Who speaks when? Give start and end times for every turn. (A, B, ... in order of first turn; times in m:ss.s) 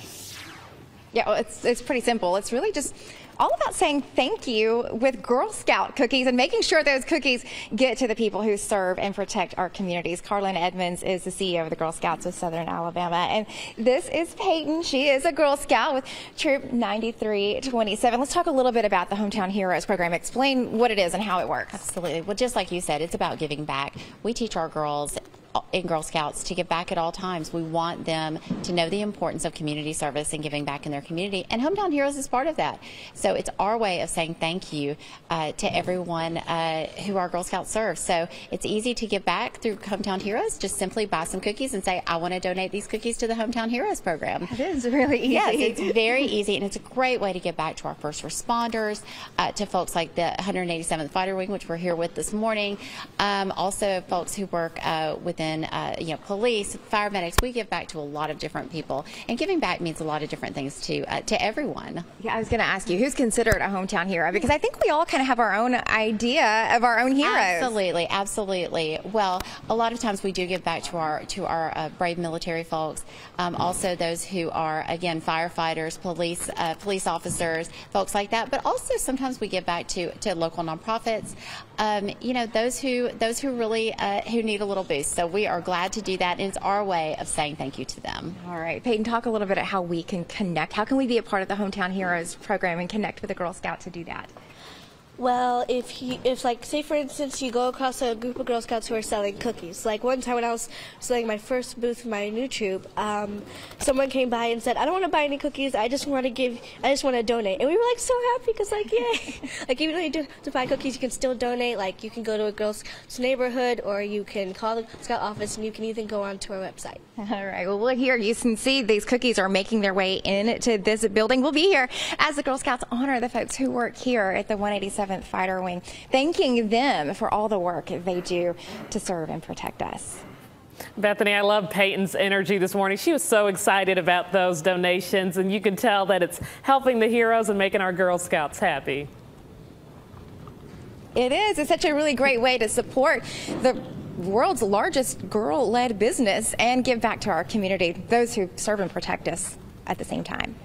0:01.1-0:21.8 A
0:21.8-0:44.5 B
0:44.4-0:46.2 A
0:45.3-1:02.0 B
1:02.2-1:07.7 A
1:07.2-1:28.4 B
1:28.4-1:34.3 A
1:35.2-1:57.0 C
1:57.2-2:10.2 A
2:11.0-2:19.1 D
2:21.1-2:30.5 A